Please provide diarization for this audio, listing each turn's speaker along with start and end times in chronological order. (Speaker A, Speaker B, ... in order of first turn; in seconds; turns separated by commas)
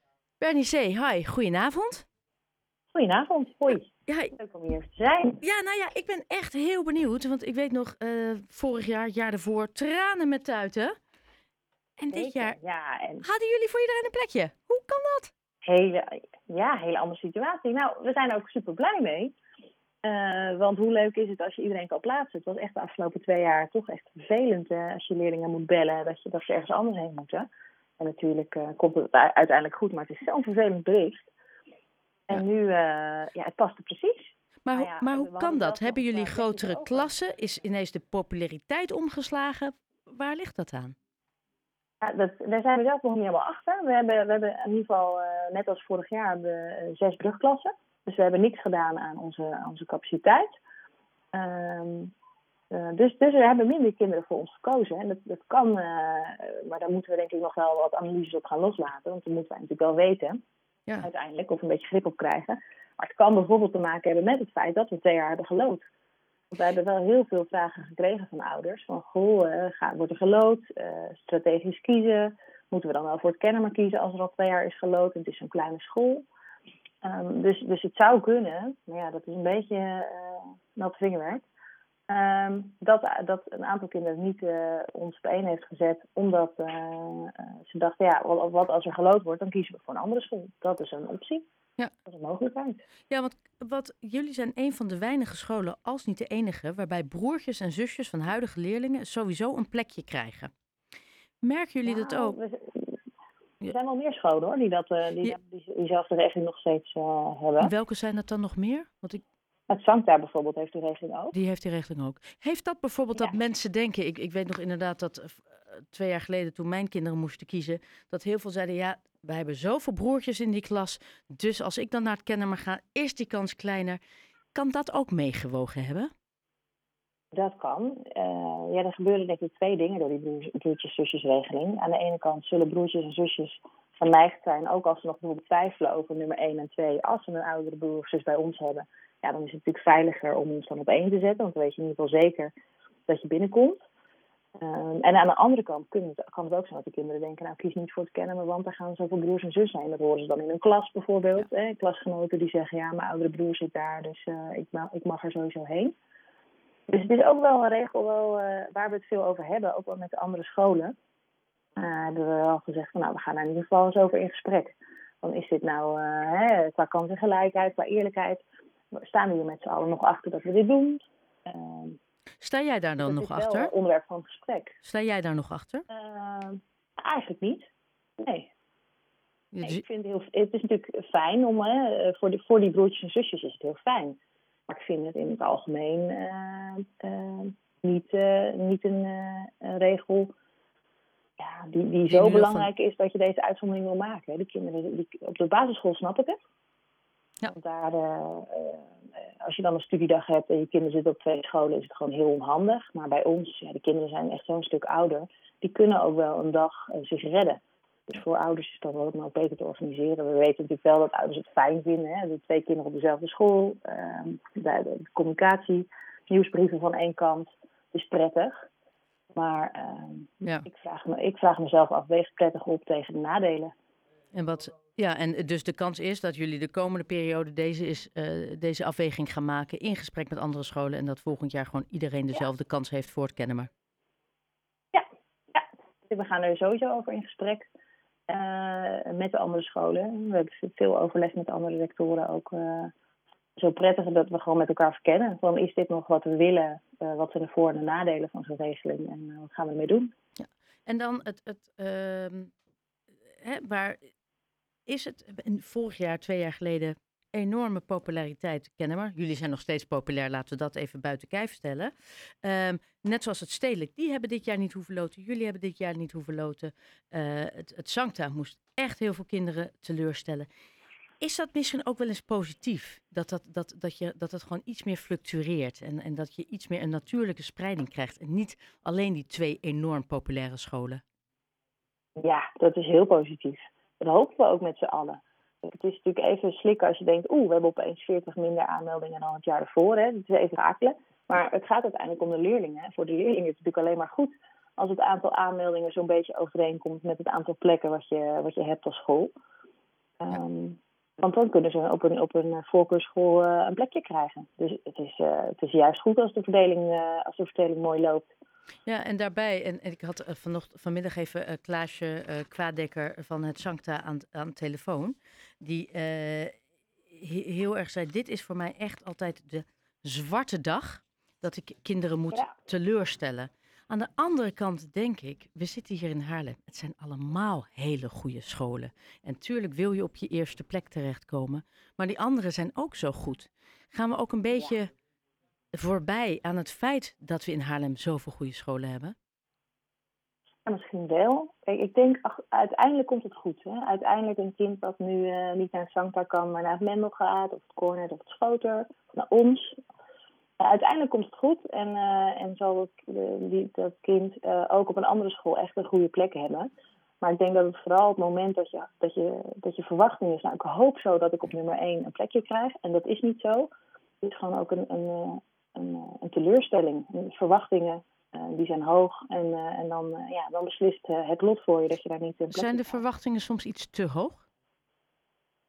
Speaker A: 0.4-2.1, Speaker B: 2.9-5.4, Speaker A: 4.1-4.3, Speaker A: 5.4-11.0, Speaker A: 12.0-12.6, Speaker B: 12.1-13.2, Speaker A: 13.2-15.3, Speaker B: 15.6-19.3, Speaker B: 20.0-27.5, Speaker B: 28.0-31.3, Speaker B: 32.3-37.1, Speaker A: 34.6-41.0, Speaker B: 42.0-50.5, Speaker B: 51.3-52.1, Speaker B: 52.7-60.4, Speaker B: 61.0-65.8, Speaker B: 66.5-76.3, Speaker B: 77.0-81.5, Speaker B: 82.1-91.4, Speaker B: 92.1-92.8, Speaker A: 93.1-100.5, Speaker A: 101.4-102.4, Speaker B: 101.8-103.0, Speaker B: 103.7-107.7, Speaker A: 107.6-109.2, Speaker B: 109.7-111.3, Speaker A: 111.3-124.0, Speaker A: 124.5-126.1, Speaker B: 127.3-142.5, Speaker B: 143.1-143.8, Speaker B: 144.6-155.9, Speaker B: 156.9-160.9, Speaker B: 161.8-172.0, Speaker A: 172.4-173.7, Speaker B: 173.0-174.8, Speaker A: 174.8-175.8, Speaker B: 175.9-177.7, Speaker B: 178.2-178.5, Speaker A: 179.5-179.8, Speaker B: 179.6-184.2, Speaker B: 184.7-190.3, Speaker B: 191.4-196.4, Speaker A: 192.1-192.7, Speaker B: 197.5-198.9, Speaker B: 199.4-218.7, Speaker B: 219.4-223.7, Speaker A: 224.3-233.7, Speaker B: 234.9-237.7, Speaker B: 238.3-242.9, Speaker B: 243.6-250.1, Speaker A: 250.4-252.5, Speaker A: 253.4-254.1, Speaker A: 254.9-270.5, Speaker A: 271.2-281.0, Speaker B: 282.2-299.3, Speaker B: 300.2-308.3, Speaker A: 308.9-316.5, Speaker A: 317.1-334.9, Speaker A: 335.7-339.1, Speaker B: 340.7-349.8, Speaker B: 350.6-363.7, Speaker B: 364.2-373.0, Speaker A: 372.5-374.5